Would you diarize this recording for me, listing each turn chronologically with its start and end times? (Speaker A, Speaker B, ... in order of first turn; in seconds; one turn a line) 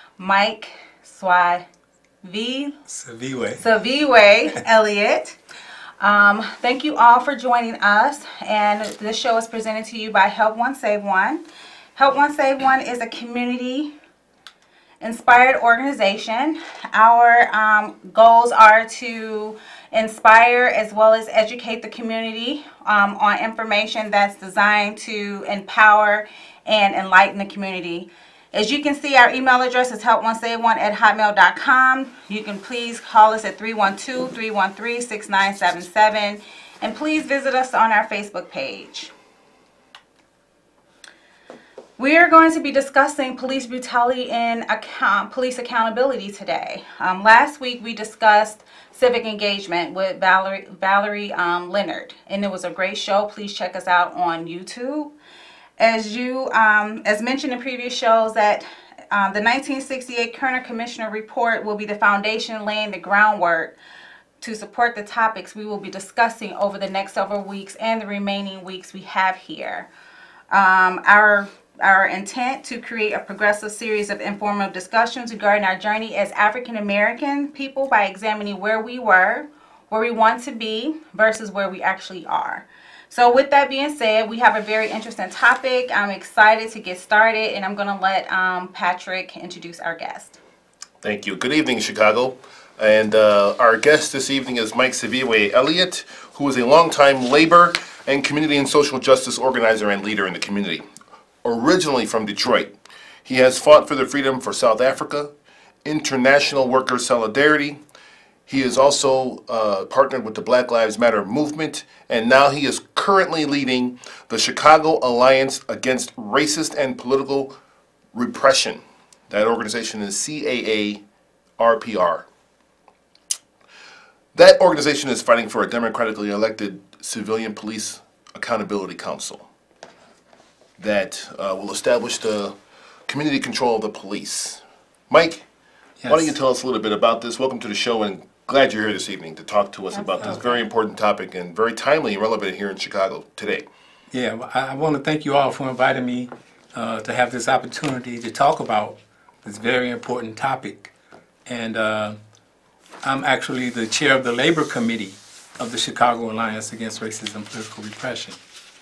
Speaker A: 0.2-1.6
Speaker A: 2.2-2.8
Speaker B: 2.9-3.6
Speaker A: 3.5-5.4
Speaker A: 6.0-11.4
Speaker A: 11.9-13.9
Speaker A: 15.0-39.1
Speaker A: 42.0-55.1
Speaker A: 55.8-63.7
Speaker A: 64.4-69.9
Speaker A: 70.5-90.4
Speaker C: 91.0-100.8
Speaker C: 101.4-102.7
Speaker C: 103.2-105.3
Speaker C: 105.8-107.8
Speaker C: 108.5-117.5
Speaker C: 118.1-121.0
Speaker C: 121.6-122.2
Speaker C: 124.3-129.5
Speaker C: 130.8-132.5
Speaker C: 133.1-135.4
Speaker B: 136.0-136.3
Speaker C: 136.1-143.6
Speaker B: 144.1-150.9
Speaker B: 151.4-152.2
Speaker B: 153.0-158.4